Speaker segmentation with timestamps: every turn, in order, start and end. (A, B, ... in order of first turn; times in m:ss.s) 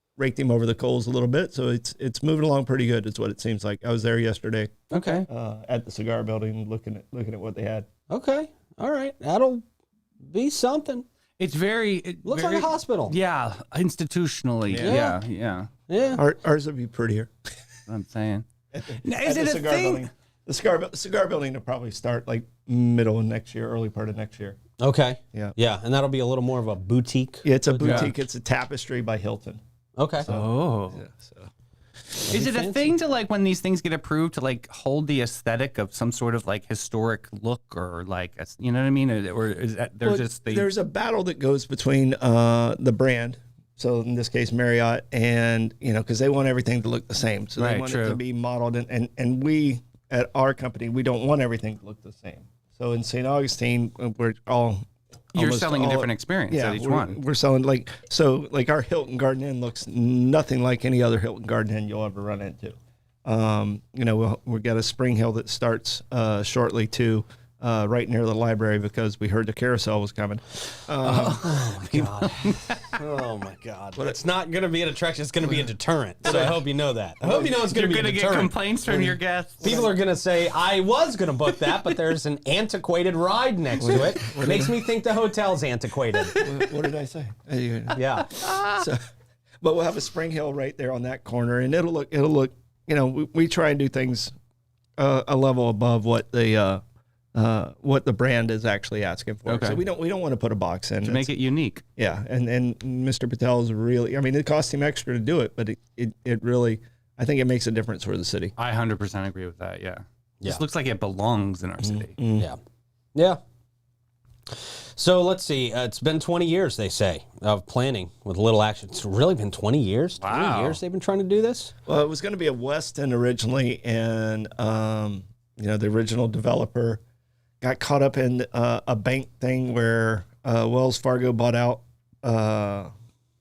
0:00.2-0:07.9 A
0:04.9-0:05.3 B
0:04.9-0:05.2 C
0:08.1-0:09.6 C
0:10.2-0:11.0 C
0:11.4-0:15.7 B
0:12.2-0:13.2 C
0:14.7-0:15.0 A
0:14.8-0:15.2 C
0:15.9-0:16.2 C
0:16.1-0:17.3 A
0:17.9-0:18.4 B
0:18.7-0:24.6 A
0:19.0-0:20.0 B
0:24.8-0:28.2 C
0:27.4-0:29.6 A
0:27.8-0:28.1 B
0:30.0-0:30.3 C
0:30.2-0:31.5 A
0:30.2-0:31.0 B
0:32.2-0:40.7 B
0:32.3-0:32.9 C
0:40.0-1:11.6 A
0:47.6-0:48.2 B
0:55.3-0:57.2 B
1:11.0-1:13.0 B
1:11.4-1:18.5 C
1:16.2-1:16.5 B
1:17.2-1:17.5 A
1:17.6-1:19.8 B
1:18.9-1:19.9 A
1:19.6-1:26.5 C
1:23.8-1:24.8 A
1:26.4-1:29.0 A
1:27.9-1:28.4 C
1:29.6-1:34.3 A
1:35.0-1:36.8 A
1:37.3-1:41.3 A
1:39.4-1:39.8 B
1:41.0-1:41.8 B
1:42.0-1:48.5 A
1:48.6-1:52.2 B
1:51.8-1:52.5 A
1:53.1-1:53.4 C
1:54.5-2:01.7 C
2:00.2-2:00.8 B
2:01.8-2:07.0 A
2:07.6-2:12.9 A